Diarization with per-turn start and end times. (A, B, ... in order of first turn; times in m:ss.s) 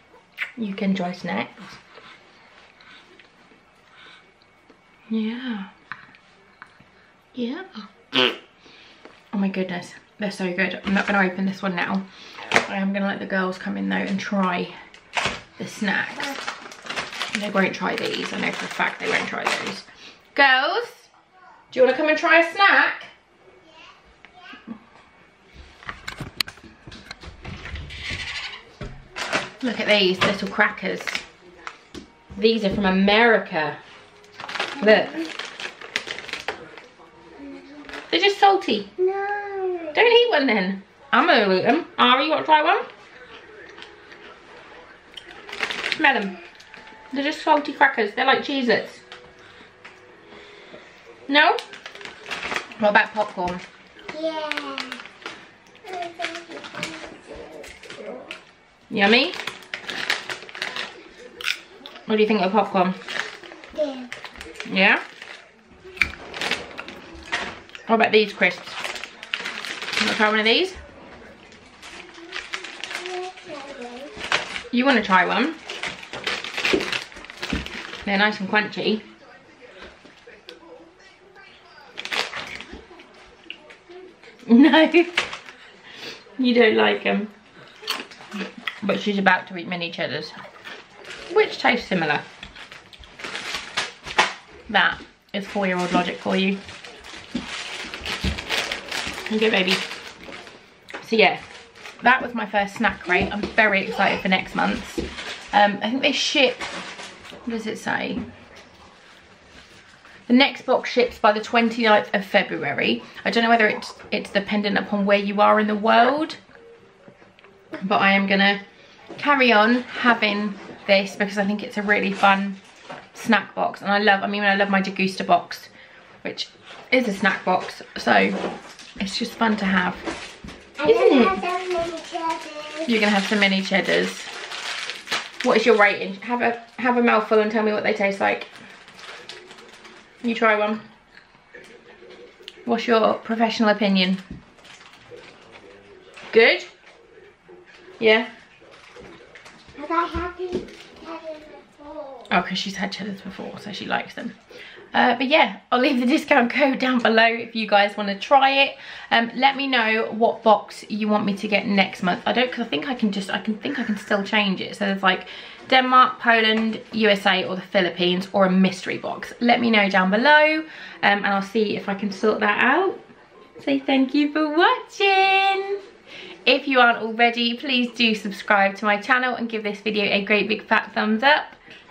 0:00.6-0:01.8 A
0:05.1-0:05.7 A
0:07.3-0:07.8 A
0:09.3-0:14.8 A
0:15.6-0:16.4 A
0:17.3-0:21.1 A
0:21.7-0:23.1 A
0:29.6-0:31.2 A
0:32.3-0:33.8 A
0:34.8-0:35.3 A
0:38.1-0:39.1 A
0:39.1-0:39.9 B
0:39.9-0:42.9 A
0:45.9-0:46.4 A
0:47.1-0:49.0 A
0:51.3-0:51.6 A
0:52.8-0:53.6 A
0:54.1-0:55.0 B
0:55.8-0:58.3 B
0:58.9-0:59.4 A
1:02.0-1:03.0 A
1:03.7-1:04.1 B
1:04.6-1:05.0 A
1:07.9-1:08.8 A
1:10.0-1:10.8 A
1:13.0-1:14.1 B
1:14.7-1:15.6 A
1:18.0-1:19.0 A
1:24.4-1:25.3 A
1:26.4-1:27.3 A
1:28.8-1:30.3 A
1:31.3-1:32.3 A
1:34.7-1:36.6 A
1:39.3-1:39.9 A
1:41.0-1:46.7 A
1:47.4-1:48.2 A
1:50.2-1:56.4 A
1:57.8-1:58.6 A
1:59.1-2:02.6 A
2:03.1-2:05.7 A
2:06.2-2:10.1 A
2:10.8-2:11.5 A
2:11.0-2:12.8 B
2:12.8-2:14.3 A
2:15.4-2:18.5 A
2:20.2-2:20.9 A
2:22.6-2:24.2 A
2:26.3-2:26.7 A
2:28.0-2:28.3 A
2:29.8-2:32.2 B
2:32.3-2:34.4 A
2:34.9-2:53.0 A
2:53.6-2:55.8 A
2:56.4-3:01.6 A